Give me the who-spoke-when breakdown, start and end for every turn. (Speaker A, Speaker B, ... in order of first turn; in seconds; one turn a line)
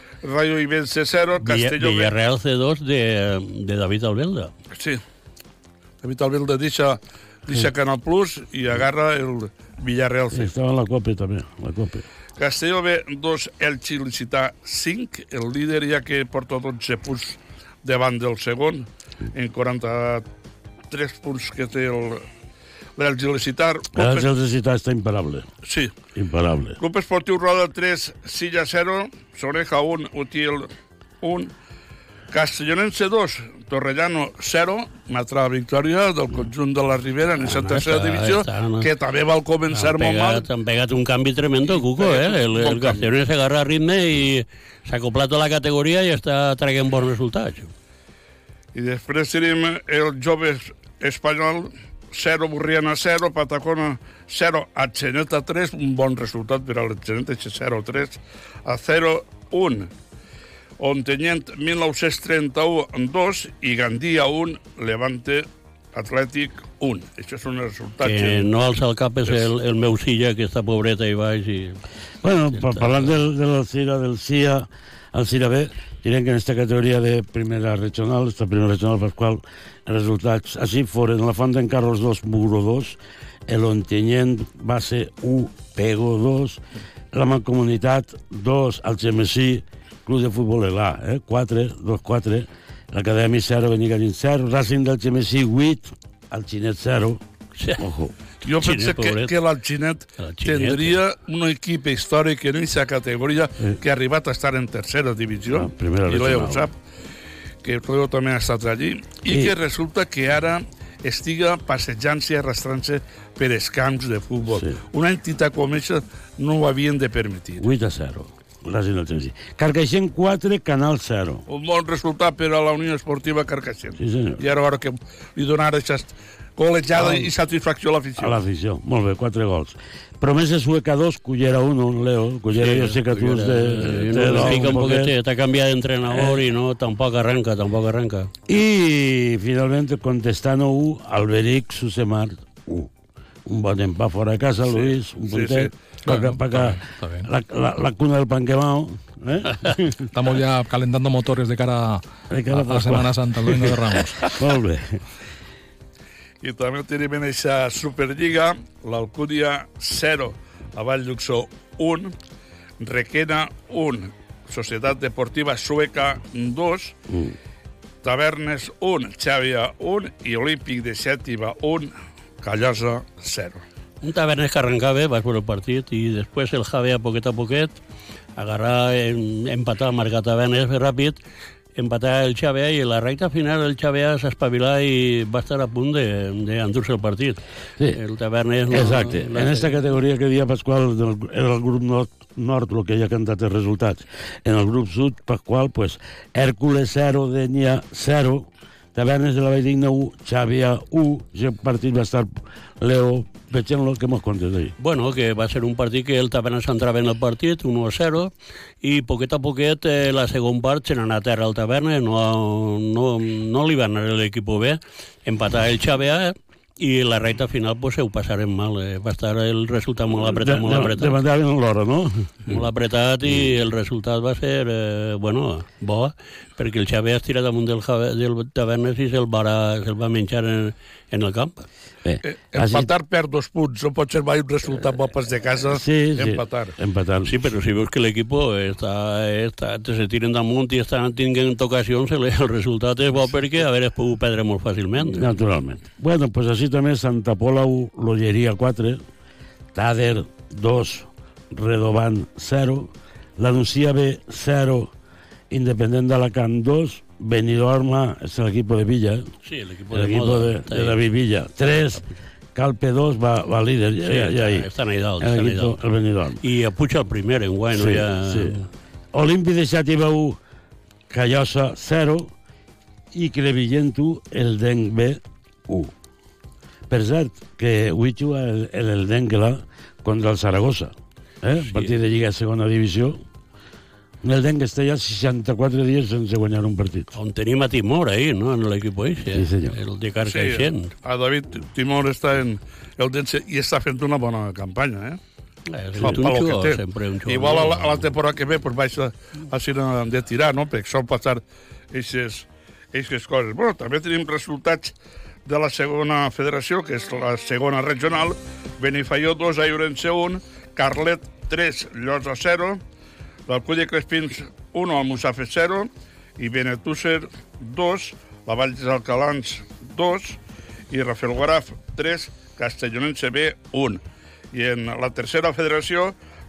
Speaker A: 0.2-2.1
Speaker B: 1.4-4.5
Speaker A: 4.7-5.0
Speaker A: 6.0-10.5
Speaker C: 10.3-12.1
Speaker A: 12.4-20.3
Speaker A: 20.9-22.3
Speaker A: 23.0-24.3
Speaker C: 23.9-25.5
Speaker A: 25.7-25.9
Speaker C: 26.2-26.8
Speaker A: 26.8-30.7
Speaker A: 31.2-31.5
Speaker A: 32.3-40.5
Speaker B: 37.4-38.9
Speaker B: 39.7-47.7
Speaker A: 41.7-43.0
Speaker A: 48.7-59.9
Speaker A: 60.8-68.5
Speaker B: 68.0-71.8
Speaker C: 72.2-83.0
Speaker B: 72.5-73.1
Speaker C: 83.5-86.6
Speaker C: 87.1-97.2
Speaker B: 97.6-97.8
Speaker C: 97.8-98.1
Speaker B: 98.4-99.3
Speaker A: 98.5-106.7
Speaker B: 100.2-101.0
Speaker C: 105.5-106.7
Speaker A: 107.6-117.7
Speaker C: 109.3-109.5
Speaker C: 117.6-121.4
Speaker A: 121.5-128.4
Speaker C: 124.0-124.4
Speaker C: 127.0-127.3
Speaker C: 128.2-135.1
Speaker B: 132.6-138.3
Speaker C: 136.1-136.4
Speaker C: 138.5-142.9
Speaker C: 143.5-150.1
Speaker A: 144.8-145.7
Speaker D: 146.1-147.3
Speaker D: 150.1-154.2
Speaker C: 152.3-155.0
Speaker A: 156.4-162.1
Speaker A: 162.8-166.9
Speaker C: 167.1-167.3
Speaker A: 168.0-173.6
Speaker B: 174.0-177.8
Speaker B: 178.4-181.2
Speaker B: 181.8-187.4
Speaker B: 187.9-189.7
Speaker C: 188.7-204.7
Speaker B: 204.8-221.2
Speaker C: 220.4-222.6
Speaker B: 222.5-231.7
Speaker C: 232.1-232.9
Speaker A: 232.2-236.8
Speaker C: 235.7-237.5
Speaker B: 237.2-245.3
Speaker C: 245.0-249.0
Speaker C: 249.8-254.9
Speaker C: 255.5-259.3
Speaker B: 259.4-261.0
Speaker C: 259.9-264.7
Speaker B: 264.1-265.8
Speaker C: 265.2-266.4
Speaker B: 266.4-268.7
Speaker C: 267.8-268.6
Speaker C: 269.1-270.4
Speaker C: 271.1-272.3
Speaker C: 273.1-275.9
Speaker C: 276.9-283.2
Speaker C: 284.2-287.1
Speaker B: 287.1-290.9
Speaker C: 289.4-289.7
Speaker A: 290.3-295.2
Speaker B: 295.7-298.1
Speaker A: 295.9-304.9
Speaker A: 305.5-312.8
Speaker A: 313.5-320.4
Speaker A: 320.9-324.0
Speaker A: 324.5-326.1